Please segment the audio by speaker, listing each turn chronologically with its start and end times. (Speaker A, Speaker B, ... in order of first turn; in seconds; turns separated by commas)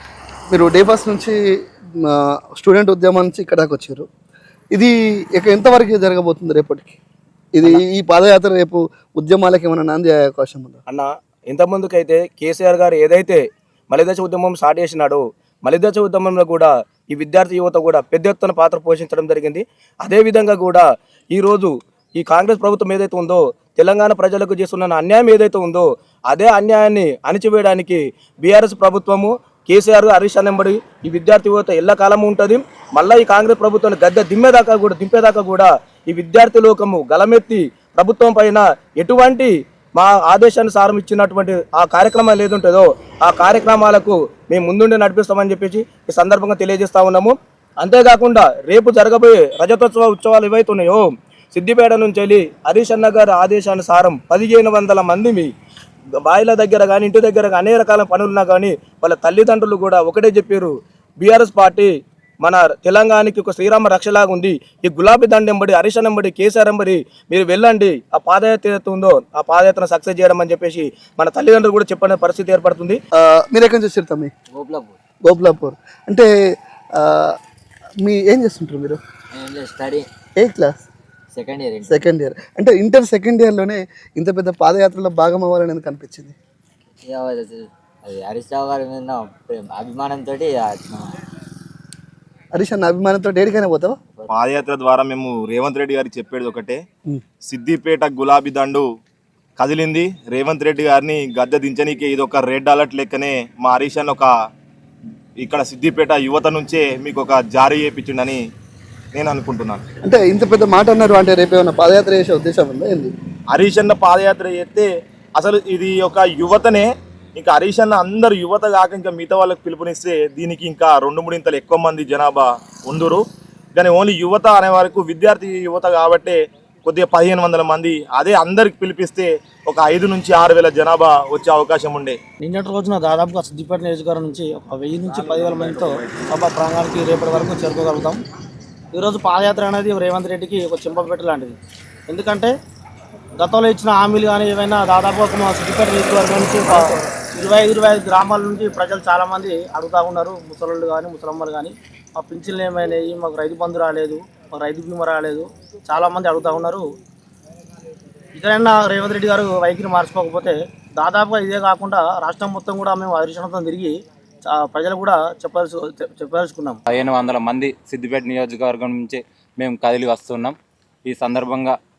Speaker A: 0.5-1.4, Speaker A: 2.0-4.1, Speaker A: 4.7-7.0, Speaker A: 7.5-10.8, Speaker B: 10.9-55.5, Speaker B: 56.2-73.0, Speaker A: 73.2-74.3, Speaker C: 74.5-74.9, Speaker A: 75.2-76.3, Speaker A: 77.0-77.3, Speaker A: 78.0-79.0, Speaker C: 79.3-80.0, Speaker A: 80.3-80.8, Speaker C: 81.3-81.9, Speaker A: 81.8-86.3, Speaker C: 87.0-91.1, Speaker A: 92.5-94.0, Speaker D: 94.3-96.8, Speaker D: 97.5-98.8, Speaker D: 99.6-104.3, Speaker D: 105.4-108.4, Speaker D: 109.1-109.8, Speaker A: 110.0-113.1, Speaker D: 113.5-123.2, Speaker D: 123.7-132.2, Speaker E: 132.4-138.2, Speaker E: 138.9-141.6, Speaker E: 142.1-142.5, Speaker E: 143.4-156.8, Speaker E: 158.3-163.9, Speaker E: 164.4-166.8, Speaker F: 166.9-171.8